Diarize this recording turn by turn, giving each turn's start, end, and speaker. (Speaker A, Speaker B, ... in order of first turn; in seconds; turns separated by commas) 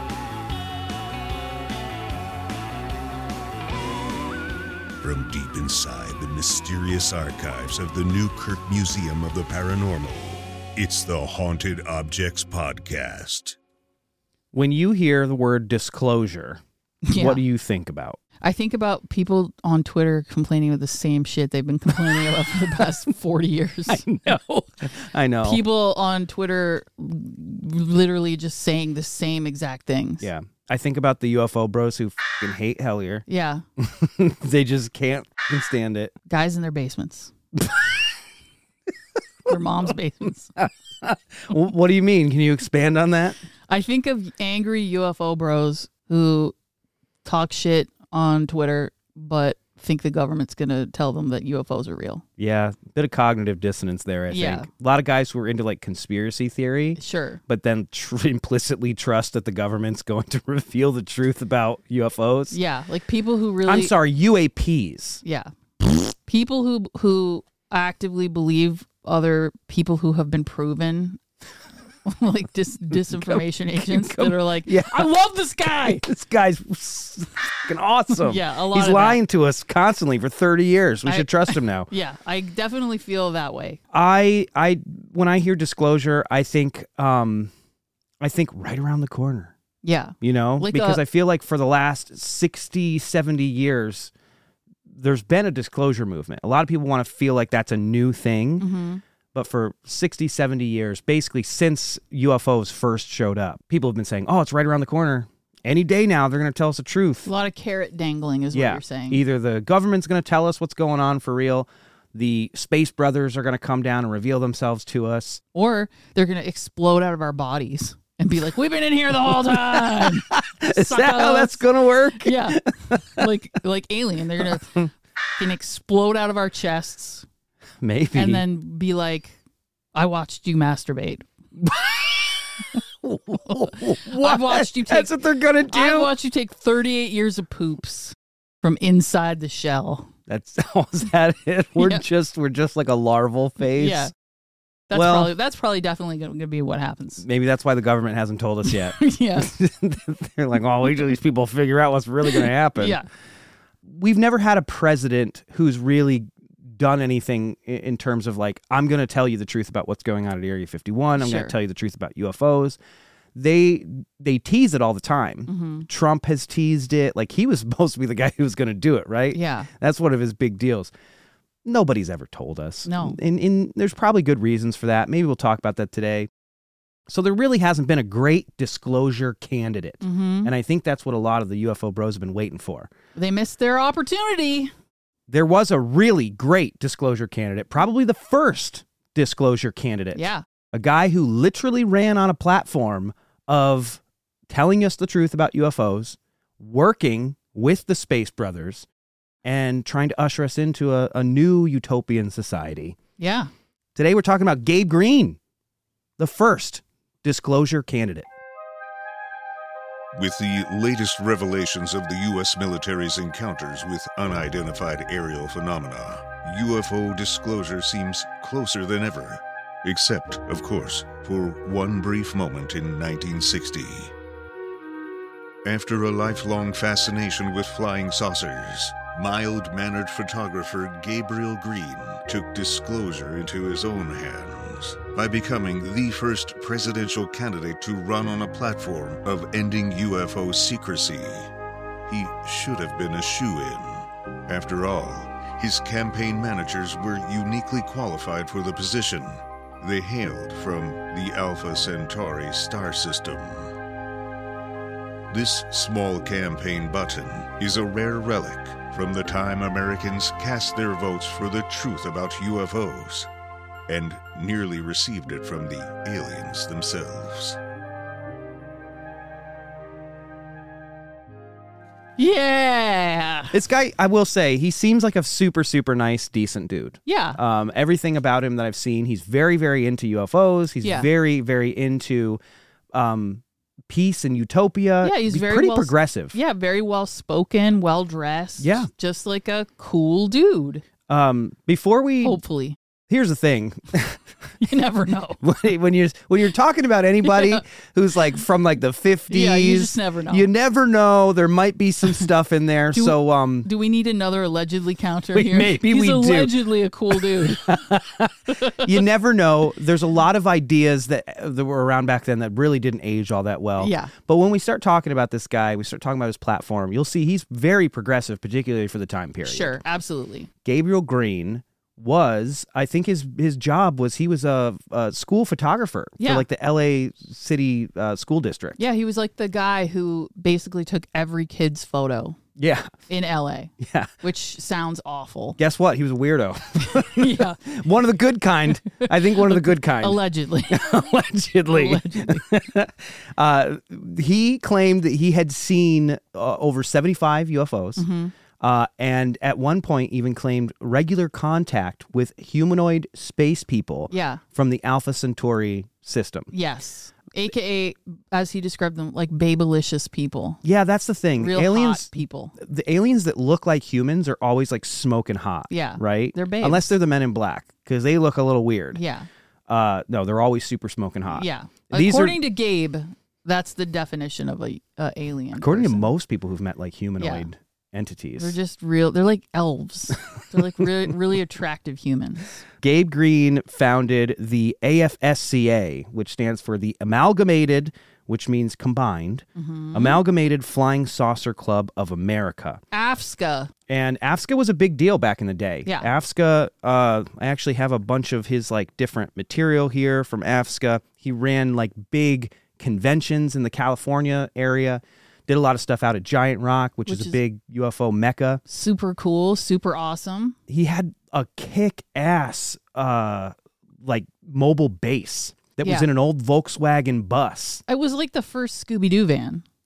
Speaker A: 5.0-13.6, Speaker B: 14.5-16.6, Speaker C: 17.1-17.4, Speaker B: 17.1-18.2, Speaker C: 18.4-24.1, Speaker B: 23.9-25.6, Speaker C: 25.4-30.3, Speaker B: 30.2-33.2, Speaker C: 33.3-33.6, Speaker B: 33.8-36.1, Speaker C: 36.3-37.3, Speaker B: 37.6-38.0, Speaker C: 39.5-40.5, Speaker B: 40.6-43.4, Speaker C: 43.7-46.5, Speaker C: 47.2-52.2, Speaker B: 52.4-62.6, Speaker C: 54.3-54.7, Speaker C: 57.0-57.4, Speaker C: 62.5-63.9, Speaker B: 63.7-65.2, Speaker C: 65.2-65.5, Speaker C: 66.2-71.2, Speaker C: 72.0-76.0, Speaker B: 72.9-75.1, Speaker B: 75.6-81.9, Speaker C: 78.2-79.2, Speaker C: 81.0-83.8, Speaker B: 83.9-87.5, Speaker B: 88.2-89.5, Speaker C: 89.8-91.0, Speaker B: 90.2-94.1, Speaker B: 94.9-98.7, Speaker C: 98.6-99.0, Speaker B: 99.3-107.3, Speaker C: 107.2-109.2, Speaker B: 108.5-115.4, Speaker C: 115.5-127.2, Speaker B: 119.3-123.3, Speaker B: 124.4-124.8, Speaker B: 127.8-128.4, Speaker C: 128.2-129.4, Speaker C: 129.9-131.3, Speaker B: 131.6-136.1, Speaker C: 133.5-135.1, Speaker C: 135.7-140.1, Speaker B: 140.3-144.1, Speaker C: 141.8-142.0, Speaker C: 143.8-144.1, Speaker C: 144.9-147.2, Speaker B: 144.9-145.3, Speaker B: 147.2-153.0, Speaker C: 148.7-149.5, Speaker C: 152.3-153.1, Speaker B: 153.8-162.8, Speaker C: 161.2-161.5, Speaker B: 163.3-170.9, Speaker C: 165.5-165.9, Speaker C: 169.3-169.7, Speaker B: 171.7-176.3, Speaker C: 172.8-173.2, Speaker B: 177.1-182.9, Speaker C: 180.0-180.5, Speaker C: 183.2-184.7, Speaker B: 185.3-198.8, Speaker C: 190.2-190.4, Speaker B: 199.4-203.0, Speaker C: 203.2-203.5, Speaker B: 203.9-205.4, Speaker B: 206.2-208.3, Speaker A: 210.1-224.1, Speaker A: 225.7-241.5, Speaker A: 242.1-253.7, Speaker A: 255.3-263.3, Speaker A: 263.9-267.6, Speaker C: 272.2-273.6, Speaker B: 273.5-282.4, Speaker C: 277.1-277.4, Speaker C: 280.8-281.1, Speaker B: 282.9-286.4, Speaker C: 285.0-290.9, Speaker B: 288.6-288.9, Speaker B: 291.1-292.4, Speaker C: 292.2-292.8, Speaker B: 293.1-294.2, Speaker C: 294.6-295.4, Speaker B: 295.4-303.7, Speaker C: 299.3-300.5, Speaker C: 302.9-309.0, Speaker B: 305.3-306.6, Speaker B: 307.1-319.8, Speaker C: 313.8-314.1, Speaker C: 319.4-320.5, Speaker B: 320.6-328.8, Speaker C: 326.2-326.5, Speaker C: 328.8-332.4, Speaker B: 332.6-332.9, Speaker C: 333.1-335.6, Speaker B: 333.8-334.1, Speaker B: 335.6-348.1, Speaker C: 336.8-337.6, Speaker C: 338.9-341.1, Speaker C: 341.7-342.5, Speaker C: 348.0-348.3, Speaker B: 348.6-356.5, Speaker C: 354.1-354.4, Speaker C: 356.5-360.6, Speaker B: 360.6-369.0, Speaker C: 361.4-362.6, Speaker C: 365.7-366.9, Speaker C: 368.9-369.3, Speaker B: 369.7-372.4, Speaker C: 371.3-376.1, Speaker B: 375.6-378.6, Speaker C: 377.2-377.5, Speaker C: 378.4-382.6, Speaker B: 382.8-392.8, Speaker C: 389.6-390.2, Speaker C: 392.9-393.7, Speaker B: 393.9-408.6, Speaker C: 407.1-407.4, Speaker C: 408.7-410.6, Speaker B: 410.7-417.8, Speaker C: 417.9-419.6